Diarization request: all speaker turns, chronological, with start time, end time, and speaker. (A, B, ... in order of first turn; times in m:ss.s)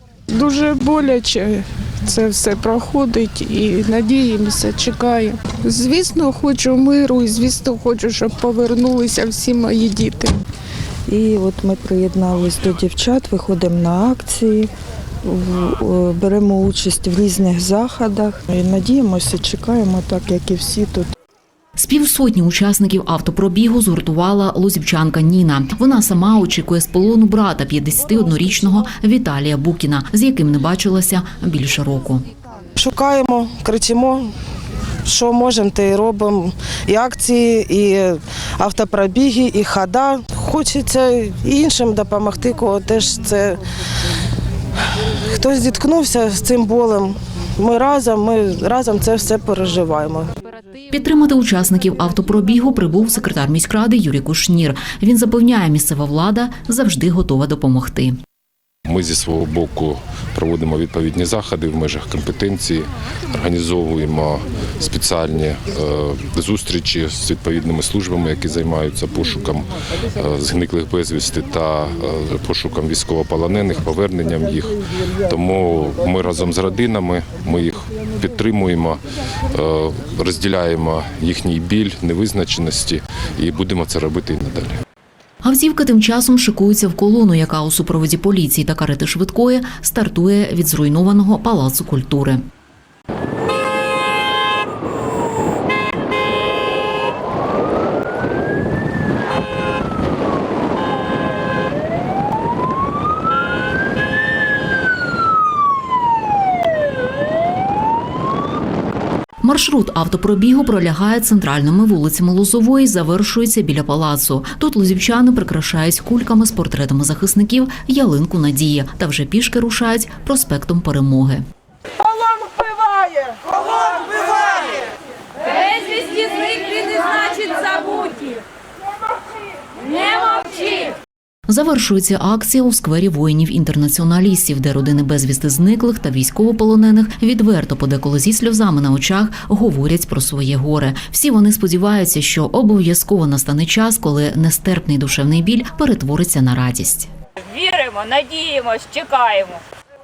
0:00.3-0:10.4 A
0:11.1-0:14.7 B
0:15.2-0:21.1 B
0:21.8-0:32.2 C
0:32.8-0:34.3 D
0:35.0-0:43.6 D
0:45.3-0:50.3 D
0:50.9-0:58.2 C
0:58.8-1:14.8 E
1:15.3-1:24.8 E
1:25.4-1:32.4 C
1:49.4-2:01.4 C
2:02.5-2:03.2 D
2:06.8-2:07.6 F
2:11.5-2:27.1 C
2:27.5-2:29.6 F